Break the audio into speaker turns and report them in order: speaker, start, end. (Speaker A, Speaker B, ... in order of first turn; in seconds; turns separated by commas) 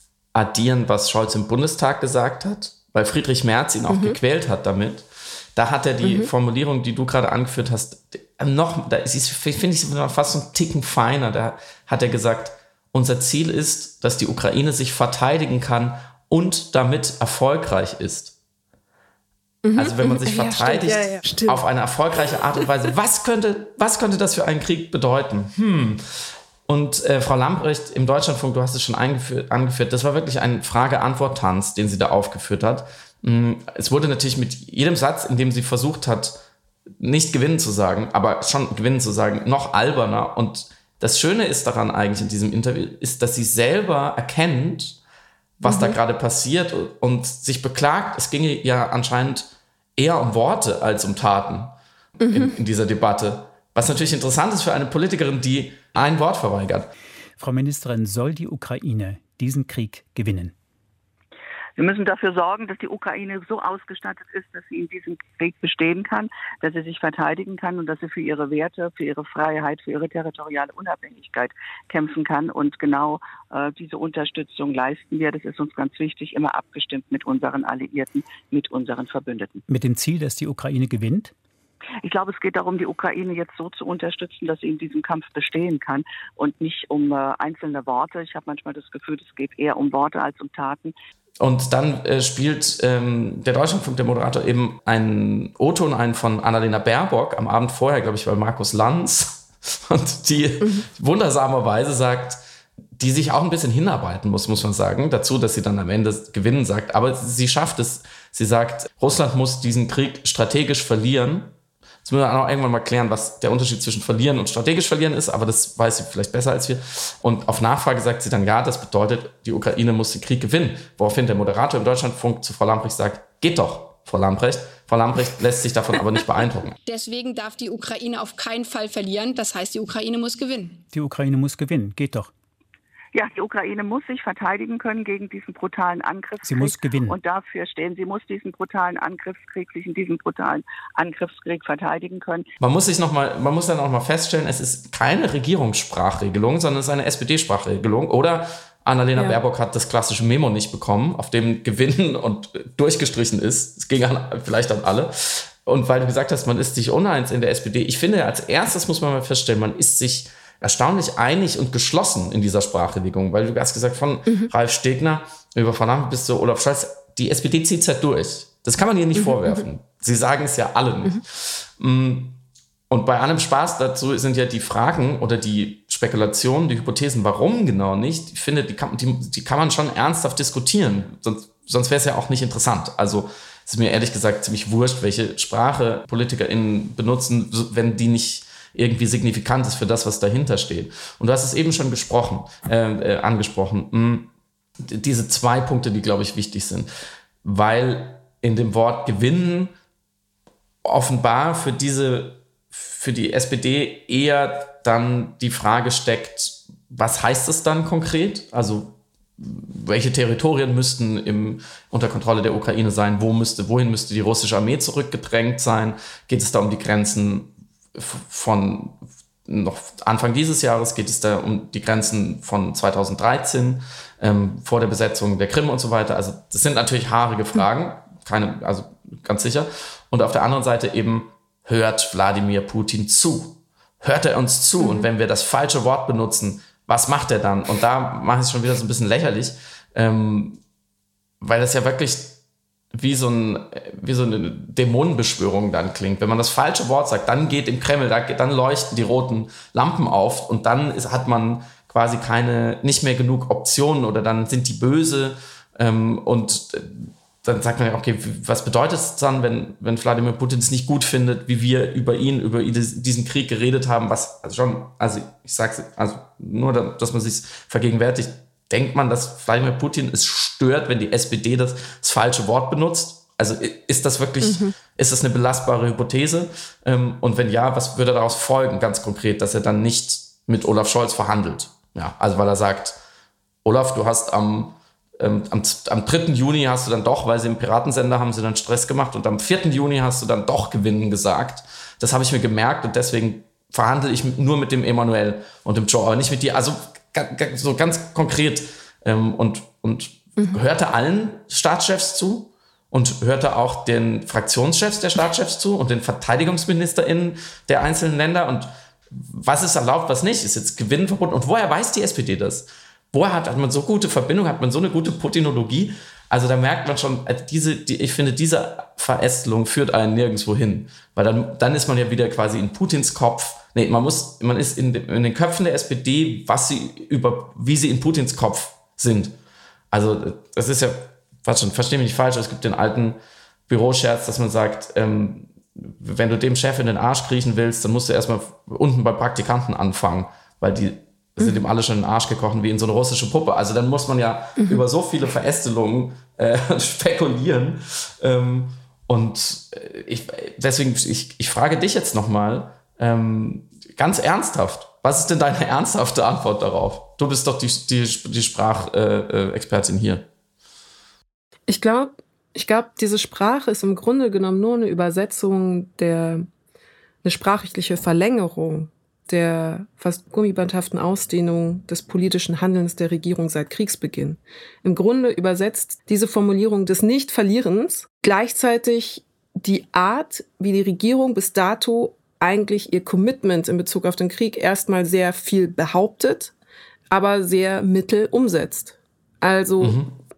Speaker A: 0.3-18.4, Speaker B: 3.9-4.2, Speaker B: 6.0-6.3, Speaker B: 19.6-21.6, Speaker A: 19.7-26.0, Speaker A: 26.7-36.4, Speaker A: 37.0-45.0, Speaker A: 45.6-51.8, Speaker B: 45.6-46.0, Speaker B: 52.2-52.6, Speaker A: 52.3-56.9, Speaker C: 57.4-60.5, Speaker D: 61.8-79.6, Speaker C: 79.7-81.3, Speaker D: 82.0-90.9, Speaker A: 91.4-102.4, Speaker B: 100.6-100.9, Speaker A: 103.0-111.5, Speaker A: 112.0-126.8, Speaker E: 126.9-130.8, Speaker C: 130.9-132.3, Speaker D: 133.1-142.5, Speaker C: 136.4-137.2, Speaker A: 142.6-196.9, Speaker B: 169.2-169.5, Speaker A: 197.4-199.7, Speaker A: 200.8-240.6, Speaker B: 234.8-235.1, Speaker A: 241.4-242.4, Speaker A: 242.9-283.0, Speaker B: 274.4-274.8, Speaker A: 283.6-329.4, Speaker A: 329.9-360.3, Speaker B: 361.7-366.5, Speaker B: 367.2-386.5, Speaker B: 387.1-390.0, Speaker A: 389.8-390.1